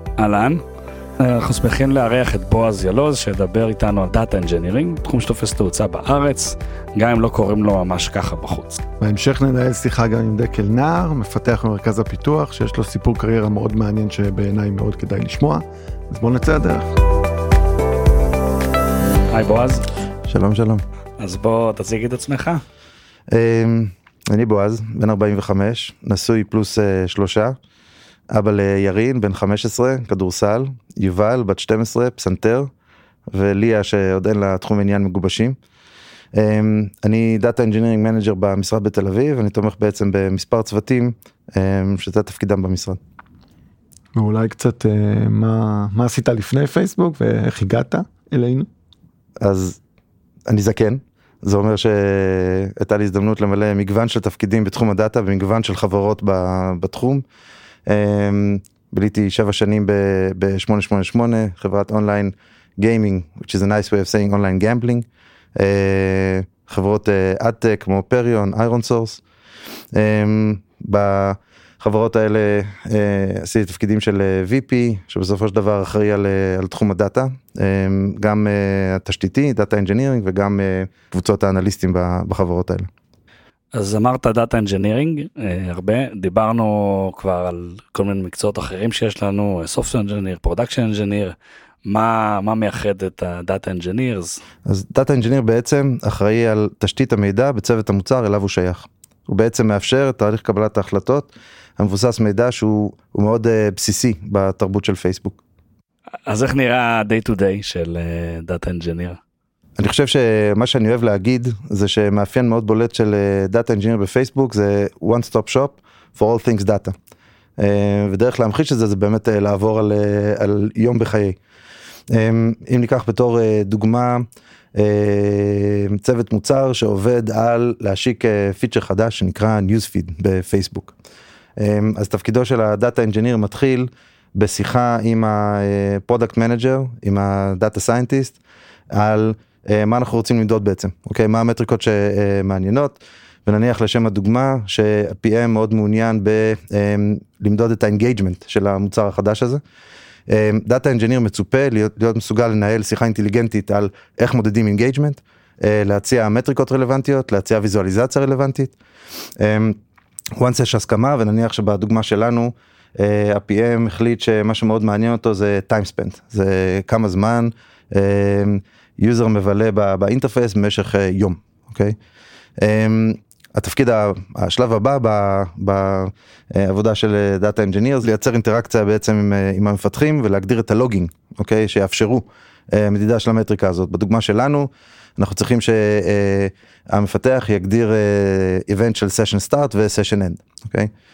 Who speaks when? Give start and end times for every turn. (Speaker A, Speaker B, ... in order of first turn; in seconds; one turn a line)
Speaker A: 0.2-0.6
Speaker A: 1.2-8.8
Speaker B: 9.0-16.9
Speaker A: 19.3-19.8
Speaker C: 20.3-20.8
Speaker A: 21.2-22.6
Speaker C: 23.3-27.6
Speaker C: 28.3-32.7
Speaker C: 33.3-35.6
Speaker C: 36.3-43.0
Speaker B: 44.1-48.7
Speaker C: 49.4-49.8
Speaker C: 50.5-57.2
Speaker C: 57.9-69.2
Speaker C: 69.9-82.9
Speaker A: 83.7-94.4
Speaker C: 94.6-105.4
Speaker A: 106.2-109.2
Speaker C: 109.8-116.9
Speaker C: 117.6-121.4
Speaker C: 122.1-130.9
Speaker C: 131.6-138.4
Speaker C: 138.9-149.6
Speaker C: 150.3-158.7
Speaker C: 159.4-159.8
Speaker C: 160.4-172.0
Speaker C: 172.6-190.9